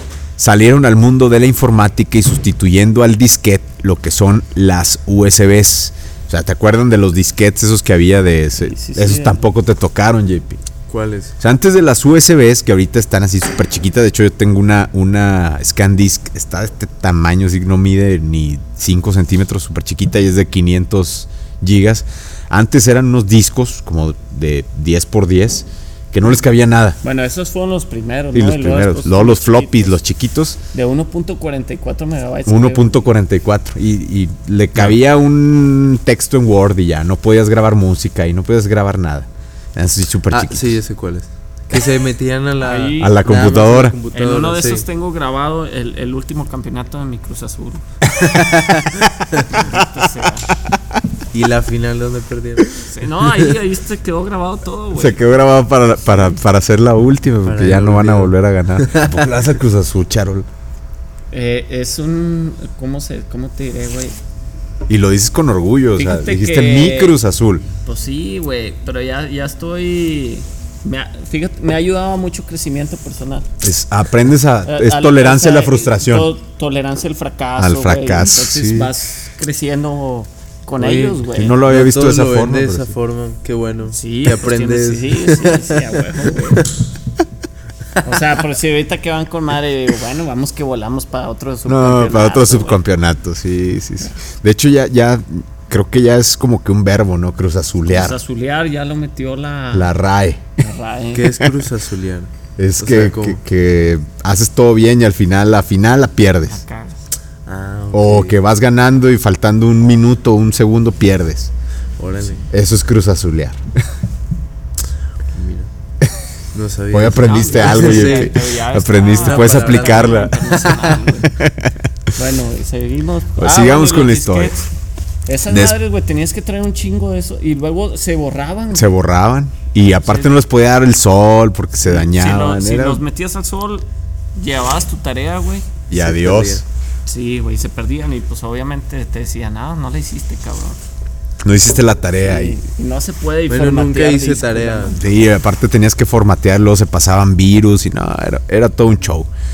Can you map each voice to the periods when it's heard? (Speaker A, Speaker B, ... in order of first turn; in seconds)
Speaker A: 0.4-10.6, 11.4-27.0, 28.3-30.6, 32.5-40.8, 43.0-44.0, 48.1-49.0, 54.9-60.5, 64.9-67.7, 73.6-76.3, 77.5-78.9, 81.3-82.9, 91.7-98.2, 99.7-100.4, 102.6-106.6, 107.9-111.5, 112.5-113.6, 116.9-120.4, 121.3-121.7, 123.4-124.6, 125.5-125.7, 128.7-133.0, 135.9-136.6, 141.4-142.6, 145.0-149.3
Speaker B: 8.6-9.5, 27.0-30.0, 30.7-33.1, 42.6-43.2, 44.1-47.8, 49.5-50.5, 52.8-55.2, 61.3-64.1, 66.0-67.2, 67.8-73.5, 74.7-81.6, 83.9-86.7, 88.0-92.8, 97.9-99.9, 100.6-101.3, 106.5-107.0, 117.1-121.3, 122.2-124.6, 125.2-128.9, 129.9-130.4, 131.8-135.8, 137.1-140.8, 142.2-145.0
Speaker C: 10.9-11.3, 40.3-44.8, 51.3-52.7, 57.4-59.1, 80.8-86.0, 101.1-103.4, 107.5-108.4, 112.0-112.4, 115.3-115.7, 116.5-118.4, 119.1-120.9, 135.9-136.6, 143.5-145.0